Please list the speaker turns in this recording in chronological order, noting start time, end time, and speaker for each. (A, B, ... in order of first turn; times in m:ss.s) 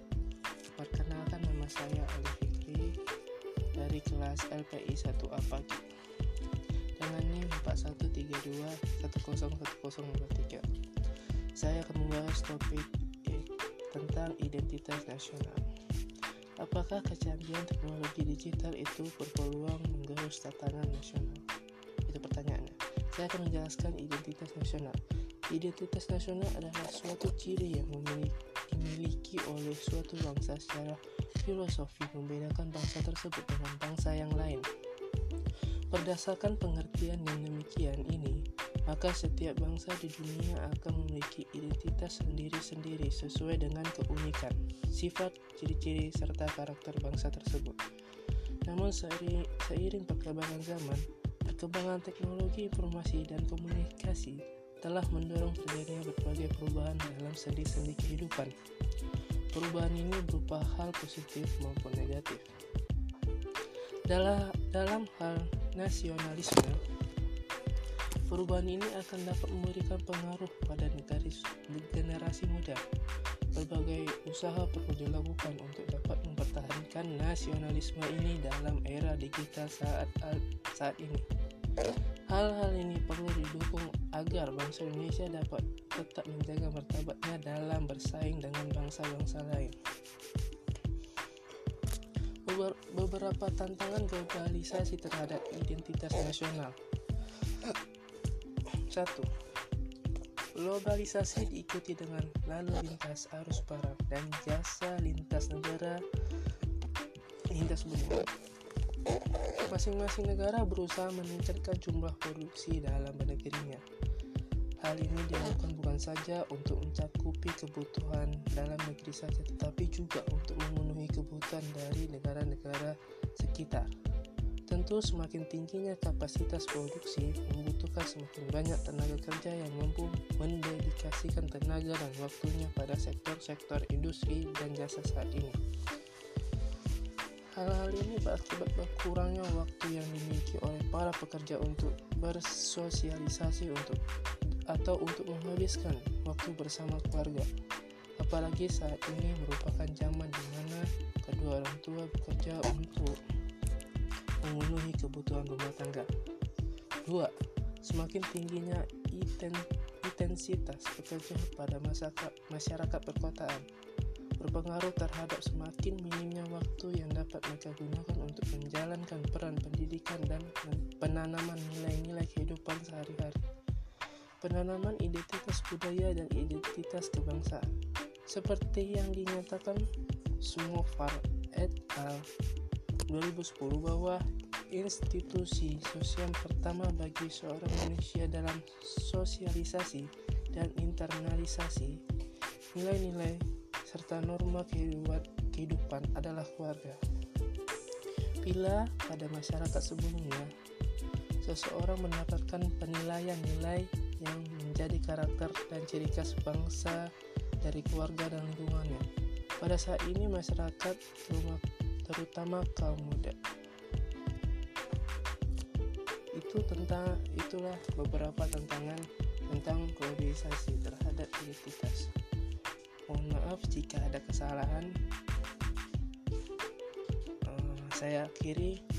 0:00.7-0:03.0 A
0:03.8-0:05.8 A
0:07.0-0:10.6 A
0:11.6-0:15.6 A
0:16.6-0:21.4 A
0:22.0-0:34.7 A
0:35.9-0:47.8 A
0:48.6-0:58.5 A
0:59.5-1:02.4 A
1:04.1-1:06.8 A
1:08.2-1:12.8 A
1:13.5-1:21.3 A
1:21.8-1:29.8 A
1:32.4-1:36.8 A
1:37.5-1:37.7 A
1:38.7-1:39.3 A
1:40.5-1:46.0 A
1:47.5-1:48.3 A
1:49.7-1:53.8 A
1:54.8-2:03.9 A
2:04.7-2:15.6 A
2:17.5-2:24.0 A
2:24.7-2:27.5 A
2:28.2-2:33.2 A
2:34.4-2:36.1 A
2:37.0-2:43.6 A
2:44.4-2:53.4 A
2:54.4-2:57.7 A
2:58.3-2:59.8 A
3:00.4-3:02.3 A
3:03.1-3:12.0 A
3:12.7-3:17.0 A
3:18.4-3:20.5 A
3:21.4-3:27.1 A
3:27.6-3:29.0 A
3:29.6-3:33.4 A
3:36.3-3:42.1 A
3:43.1-3:44.9 A
3:47.4-3:48.8 A